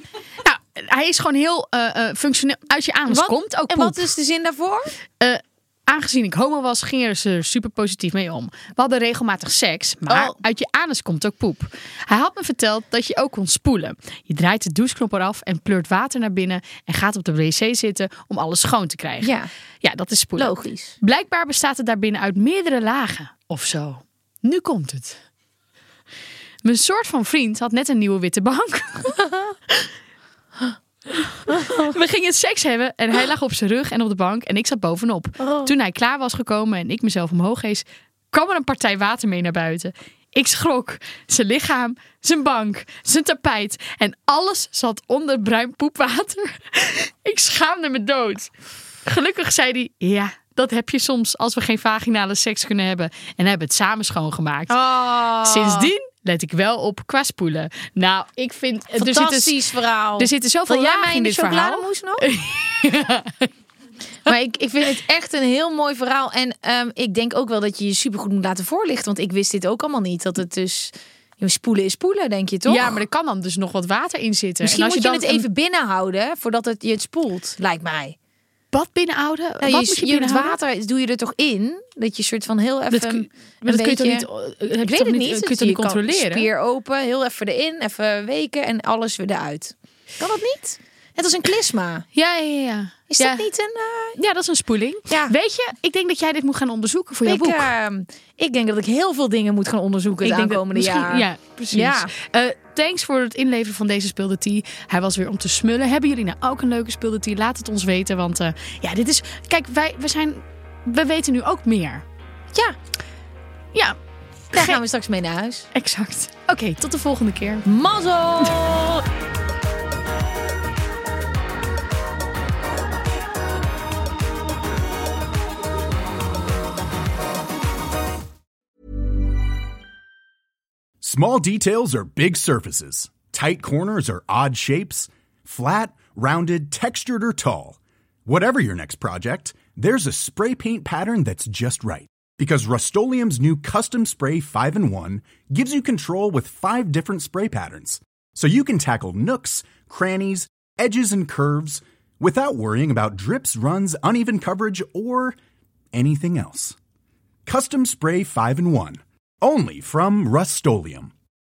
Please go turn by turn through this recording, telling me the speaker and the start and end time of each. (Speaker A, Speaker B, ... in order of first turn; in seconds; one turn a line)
Speaker A: 0.4-4.1
Speaker B: 3.1-4.9
Speaker A: 5.2-25.2
Speaker B: 10.1-10.3
Speaker B: 19.2-19.5
Speaker B: 20.4-21.0
Speaker A: 26.6-29.2
Speaker B: 29.2-29.6
Speaker A: 31.1-48.5
Speaker B: 31.5-31.9
Speaker B: 35.4-35.7
Speaker A: 49.0-54.8
Speaker B: 54.7-55.9
Speaker A: 55.4-59.5
Speaker B: 59.0-62.3
Speaker A: 60.2-63.5
Speaker B: 64.2-73.0
Speaker A: 72.7-75.5
Speaker B: 74.6-78.2
Speaker A: 78.7-80.5
Speaker B: 79.6-84.3
Speaker A: 82.9-86.5
Speaker B: 84.8-92.1
Speaker A: 92.1-93.5
Speaker B: 93.1-94.2
Speaker A: 94.2-97.7
Speaker B: 95.1-95.3
Speaker B: 97.2-102.1
Speaker A: 100.2-112.0
Speaker A: 113.7-114.0
Speaker A: 114.5-114.8
Speaker B: 114.5-115.7
Speaker A: 115.7-117.7
Speaker B: 117.6-119.0
Speaker C: 131.0-155.4
Speaker C: 155.9-156.8
Speaker C: 157.4-161.1